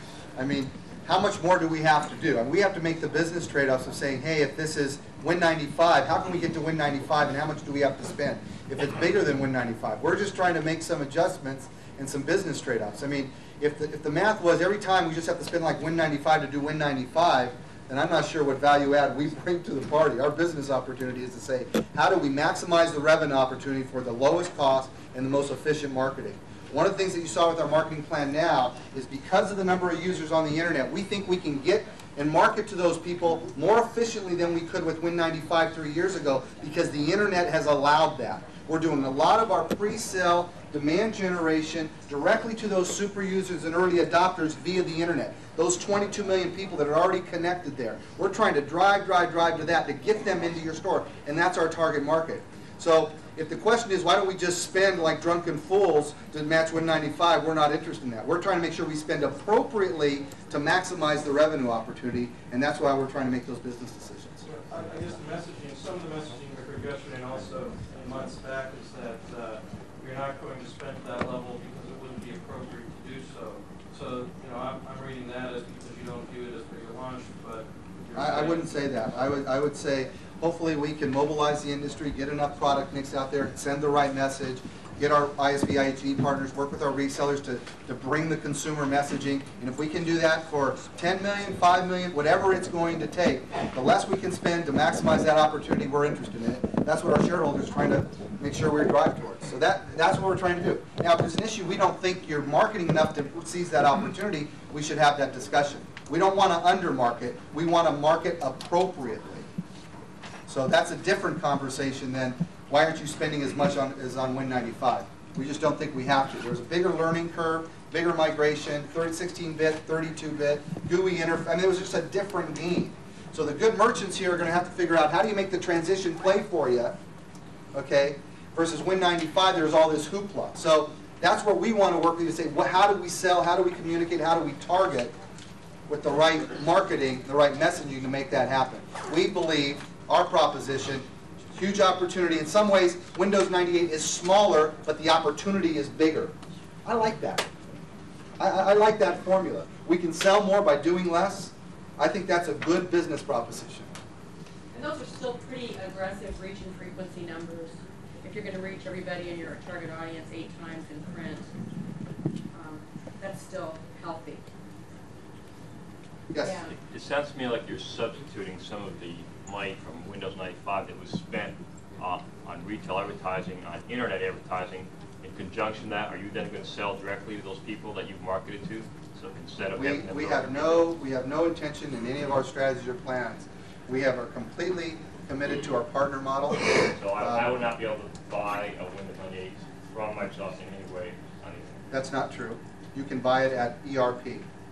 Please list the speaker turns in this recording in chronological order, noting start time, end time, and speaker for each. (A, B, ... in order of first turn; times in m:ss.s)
0:00.4-1:04.5 A
1:04.4-1:19.4 B
1:18.1-1:49.5 A
1:50.5-2:07.0 A
2:07.7-2:15.1 A
2:15.9-2:26.3 A
2:26.8-2:27.5 A
2:28.4-2:33.9 A
2:34.7-2:41.5 C
2:42.5-2:44.4 C
2:46.3-2:46.6 A
2:46.4-2:46.7 C
2:46.7-3:00.9 D
2:59.8-3:06.6 A
3:06.9-3:11.8 D
3:07.2-3:07.7 A
3:11.9-3:14.4 A